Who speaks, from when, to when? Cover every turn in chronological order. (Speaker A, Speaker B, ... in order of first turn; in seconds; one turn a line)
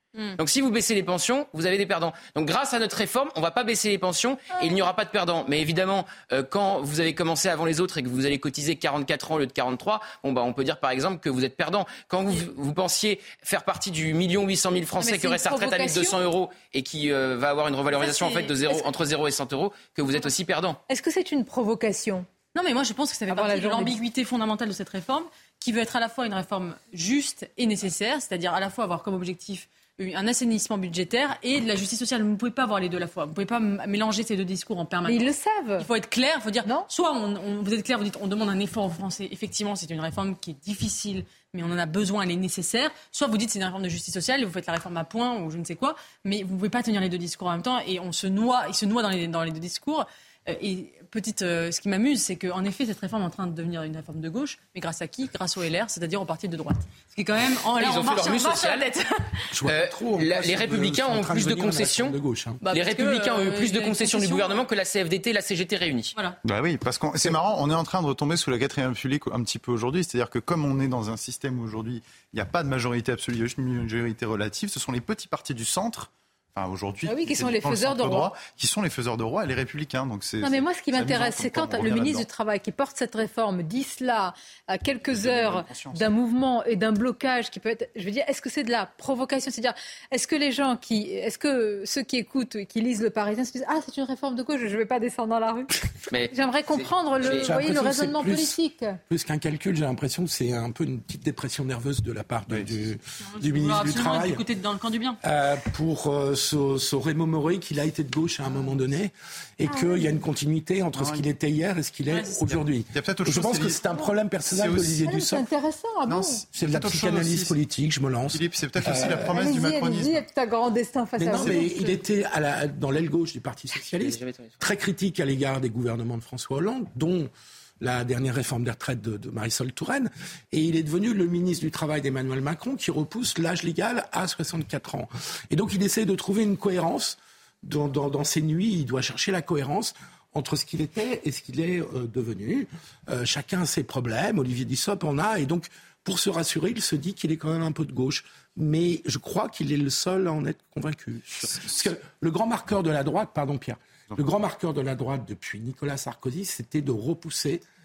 Speaker A: 0.3-20.8
Speaker B: 15.0-16.2
Speaker C: 17.9-18.8
Speaker B: 20.9-22.3
Speaker C: 22.5-35.2
Speaker B: 23.3-24.0
Speaker B: 35.0-35.9
Speaker C: 35.8-59.0
Speaker A: 57.7-58.8
Speaker B: 57.7-59.0
Speaker D: 59.5-62.6
Speaker A: 59.6-62.1
Speaker C: 62.6-64.6
Speaker A: 62.7-66.1
Speaker E: 66.4-82.3
Speaker B: 77.0-78.3
Speaker B: 80.4-95.7
Speaker E: 85.1-86.1
Speaker A: 96.1-97.6
Speaker B: 96.3-99.0
Speaker D: 97.2-98.6
Speaker D: 99.1-104.4
Speaker E: 102.5-102.9
Speaker C: 103.3-105.2
Speaker D: 105.2-115.5
Speaker B: 109.7-110.2
Speaker E: 110.9-111.2
Speaker C: 112.1-112.5
Speaker E: 112.9-115.1
Speaker B: 115.0-116.4
Speaker E: 116.1-117.6
Speaker D: 116.5-119.3
Speaker E: 118.3-120.2
Speaker B: 119.3-122.0
Speaker D: 121.2-157.6
Speaker A: 124.0-124.6